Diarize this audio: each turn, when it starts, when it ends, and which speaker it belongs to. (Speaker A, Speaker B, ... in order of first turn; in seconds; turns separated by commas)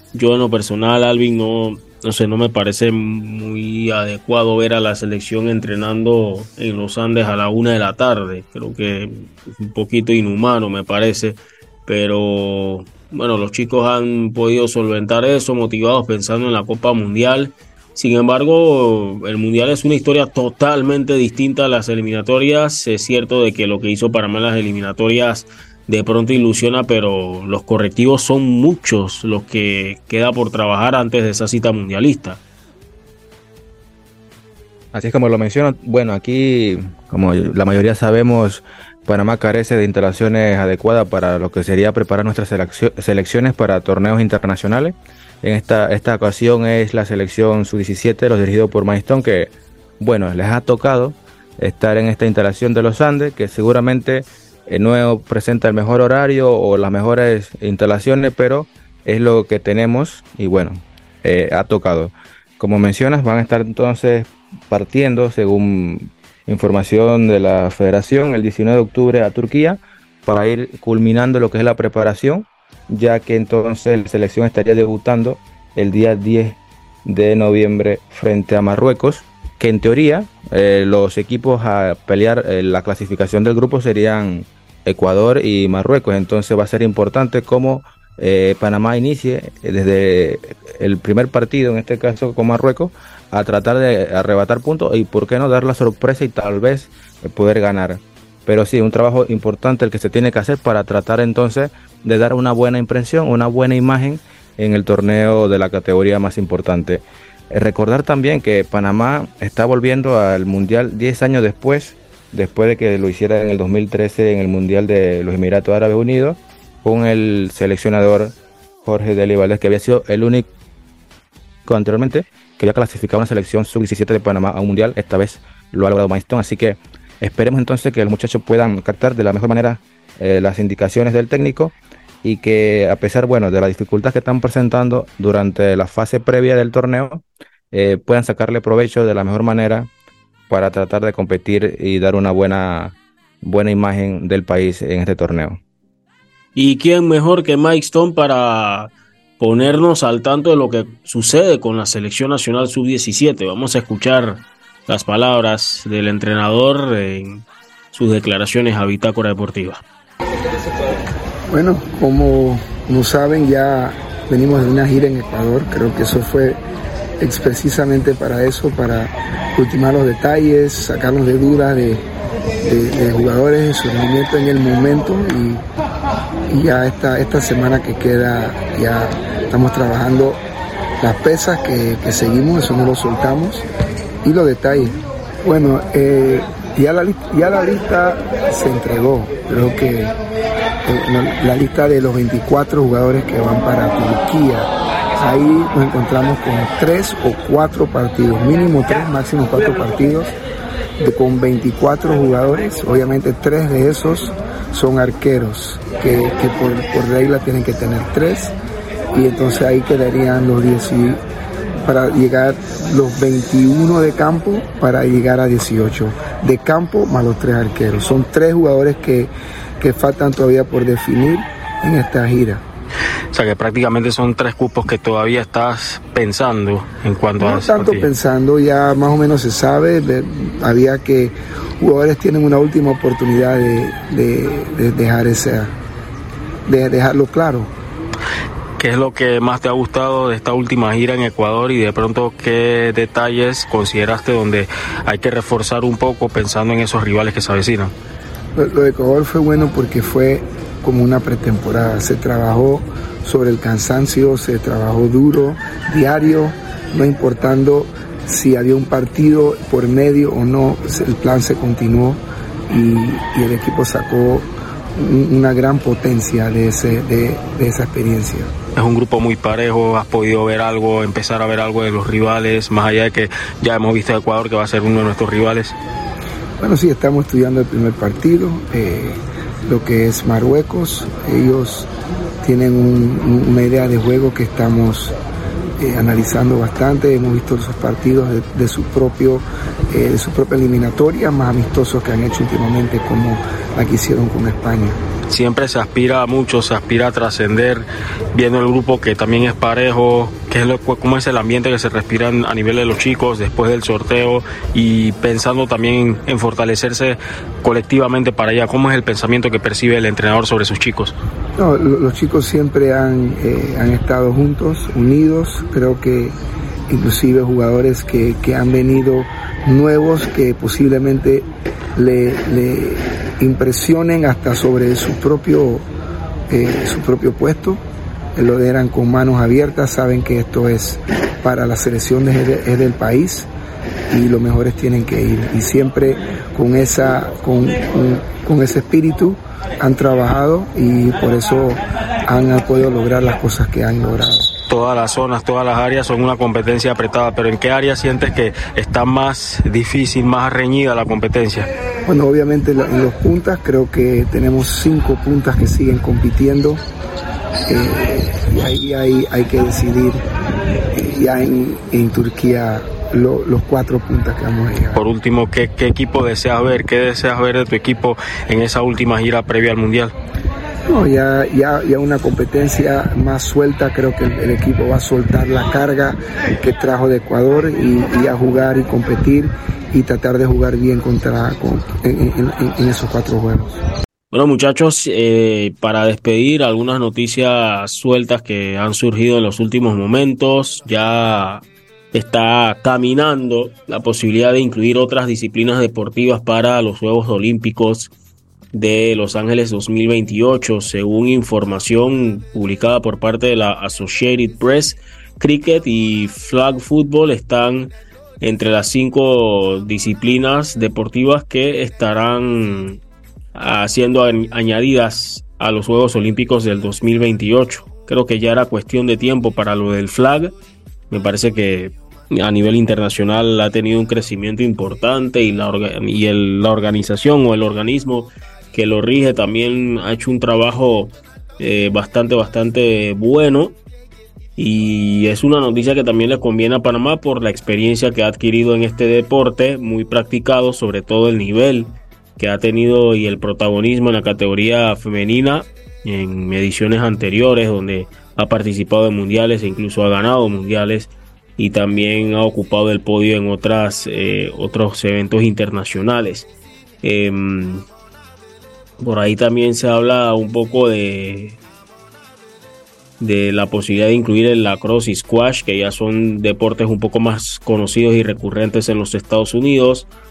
Speaker A: 0.1-32.4, Speaker B: 34.9-120.5, Speaker B: 121.7-139.9, Speaker B: 140.5-145.6, Speaker A: 146.6-159.8, Speaker C: 161.5-166.6, Speaker C: 167.2-172.0, Speaker C: 172.6-175.6, Speaker C: 176.5-180.4, Speaker C: 181.0-183.7, Speaker C: 184.2-190.2, Speaker C: 190.9-200.3, Speaker C: 201.0-208.5, Speaker C: 209.1-211.2, Speaker C: 211.8-222.6, Speaker A: 223.3-228.1, Speaker C: 227.4-235.7, Speaker C: 236.7-237.7, Speaker A: 238.8-247.9, Speaker C: 248.6-268.5, Speaker A: 268.8-275.8, Speaker C: 276.6-281.9, Speaker C: 282.4-285.1, Speaker C: 285.8-295.0, Speaker A: 295.3-311.1, Speaker C: 311.6-316.3, Speaker C: 316.9-325.9, Speaker C: 326.5-327.8, Speaker C: 328.4-333.5, Speaker C: 334.1-344.5, Speaker A: 344.7-351.7, Speaker C: 352.1-356.8, Speaker C: 357.7-360.2, Speaker C: 360.9-365.1, Speaker A: 364.9-370.1, Speaker C: 370.9-383.8, Speaker A: 384.3-398.1, Speaker A: 398.7-413.0, Speaker A: 413.6-420.5, Speaker A: 421.1-433.8, Speaker A: 434.6-456.5, Speaker A: 457.0-457.9, Speaker A: 459.0-461.6, Speaker A: 463.2-470.1